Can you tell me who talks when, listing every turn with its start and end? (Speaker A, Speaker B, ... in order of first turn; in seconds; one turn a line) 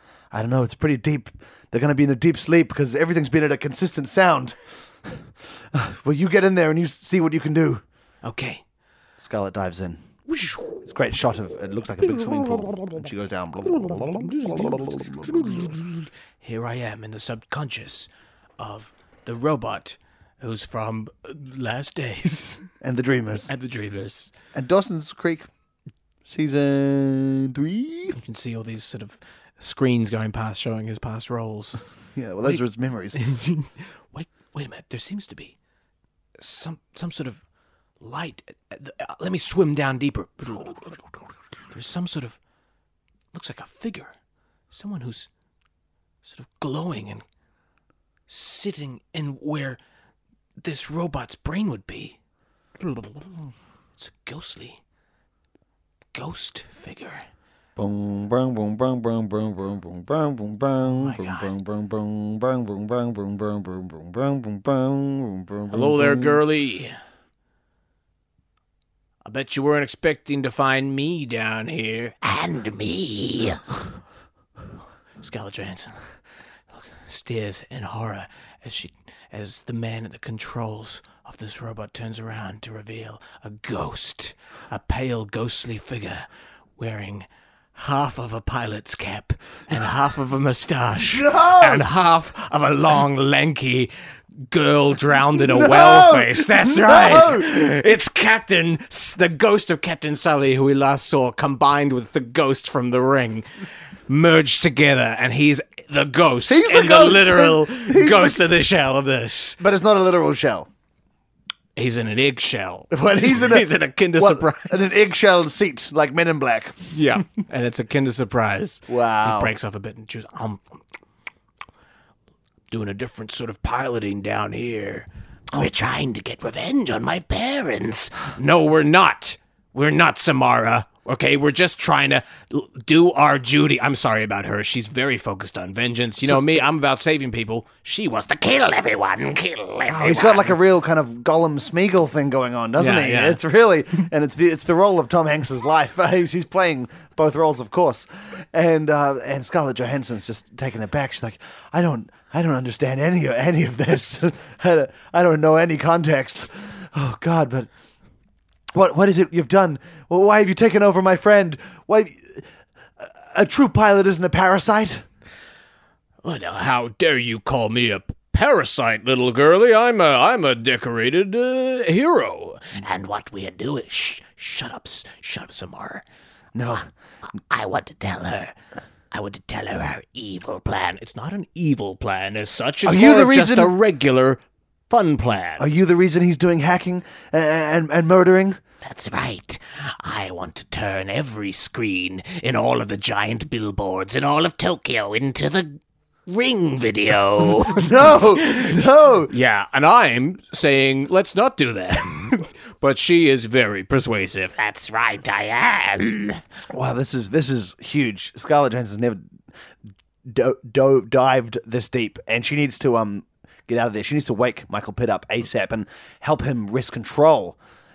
Speaker A: 0.3-5.2
Speaker A: 5.7-7.8
Speaker B: 8.2-8.6
Speaker A: 9.2-10.0
Speaker B: 10.3-10.9
Speaker A: 10.8-15.7
Speaker B: 12.2-12.9
Speaker B: 13.7-22.7
Speaker A: 22.8-23.5
Speaker B: 23.5-24.3
Speaker A: 24.5-25.5
Speaker A: 26.3-28.2
Speaker B: 28.1-31.8
Speaker A: 32.2-33.2
Speaker B: 33.1-35.5
Speaker B: 36.4-37.4
Speaker B: 38.0-41.0
Speaker B: 41.7-42.4
Speaker B: 43.3-44.1
Speaker B: 44.7-45.3
Speaker B: 46.2-47.2
Speaker B: 48.3-49.8
Speaker B: 50.6-52.2
Speaker B: 52.8-53.4
Speaker B: 54.0-54.8
Speaker B: 56.1-57.2
Speaker A: 57.8-66.4
Speaker B: 60.9-61.5
Speaker B: 65.7-67.0
Speaker B: 69.2-73.8
Speaker B: 75.2-76.0
Speaker B: 76.7-86.3
Speaker B: 86.8-93.9
Speaker A: 91.0-91.8
Speaker B: 94.5-103.5
Speaker A: 95.4-97.5
Speaker B: 104.1-109.6
Speaker A: 106.5-108.5
Speaker A: 109.6-110.7
Speaker B: 111.8-115.1
Speaker A: 112.9-117.2
Speaker B: 116.9-120.8
Speaker A: 118.9-119.5
Speaker B: 122.7-140.6
Speaker A: 136.2-136.6
Speaker A: 139.9-157.7
Speaker B: 142.8-143.4
Speaker A: 158.7-162.5
Speaker A: 163.0-165.0
Speaker B: 166.2-176.0
Speaker A: 176.6-176.9
Speaker B: 177.5-178.5
Speaker B: 179.1-185.7
Speaker A: 182.8-183.8
Speaker A: 185.6-188.6
Speaker B: 188.8-206.4
Speaker A: 197.6-199.3
Speaker A: 206.7-209.2
Speaker A: 210.2-217.6